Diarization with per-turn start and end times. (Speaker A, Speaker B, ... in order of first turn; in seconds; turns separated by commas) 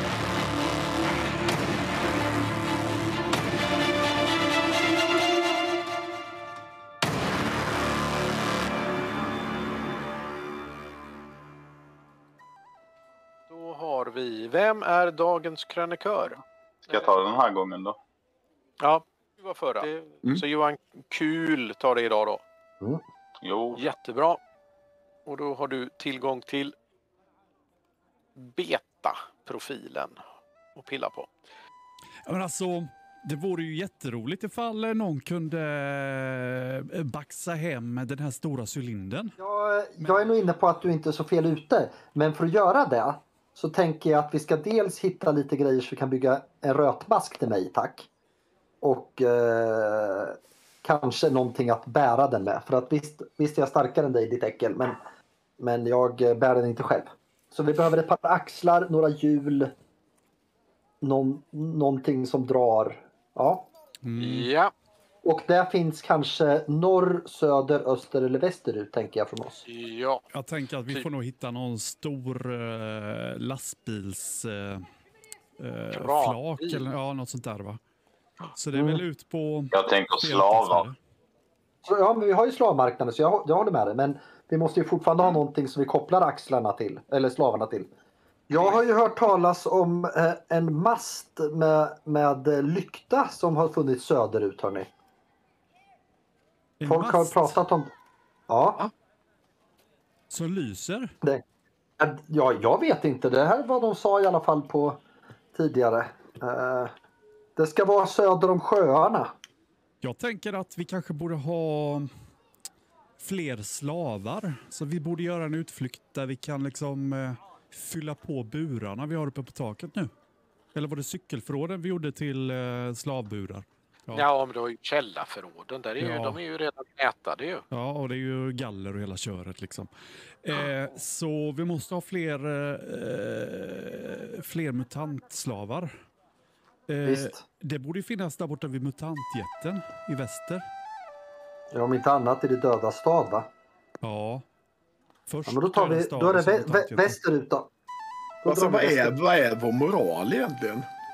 Speaker A: 13.5-16.4, Speaker B: 16.9-18.0, Speaker A: 18.8-22.4, Speaker B: 23.4-23.9, Speaker A: 23.8-24.4, Speaker A: 25.3-26.8, Speaker A: 28.4-30.2, Speaker A: 30.8-31.3, Speaker C: 32.3-39.3, Speaker D: 39.4-48.1, Speaker C: 40.0-40.2, Speaker D: 48.8-55.0, Speaker D: 55.6-59.7, Speaker D: 61.0-63.7, Speaker C: 64.0-64.5, Speaker A: 64.2-64.7, Speaker D: 65.2-69.6, Speaker A: 69.7-70.3, Speaker C: 70.3-74.9, Speaker C: 75.6-77.8, Speaker A: 75.9-76.9, Speaker C: 78.5-81.0, Speaker D: 78.7-79.0, Speaker B: 79.7-80.9, Speaker D: 81.8-87.9, Speaker D: 88.5-94.9, Speaker C: 96.8-97.6, Speaker D: 96.9-97.9, Speaker D: 98.5-98.8, Speaker C: 100.3-101.1, Speaker D: 102.0-105.0, Speaker D: 105.5-106.9, Speaker D: 107.6-109.3, Speaker C: 110.0-112.1, Speaker C: 113.2-120.1, Speaker C: 120.8-124.3, Speaker A: 124.1-127.7, Speaker C: 126.0-126.4, Speaker C: 127.7-129.9, Speaker C: 130.4-135.9, Speaker C: 136.9-140.6, Speaker D: 137.1-137.4, Speaker D: 141.7-143.5, Speaker C: 144.0-144.4, Speaker C: 145.3-147.2, Speaker D: 145.5-147.7, Speaker D: 148.4-149.2, Speaker E: 148.5-150.9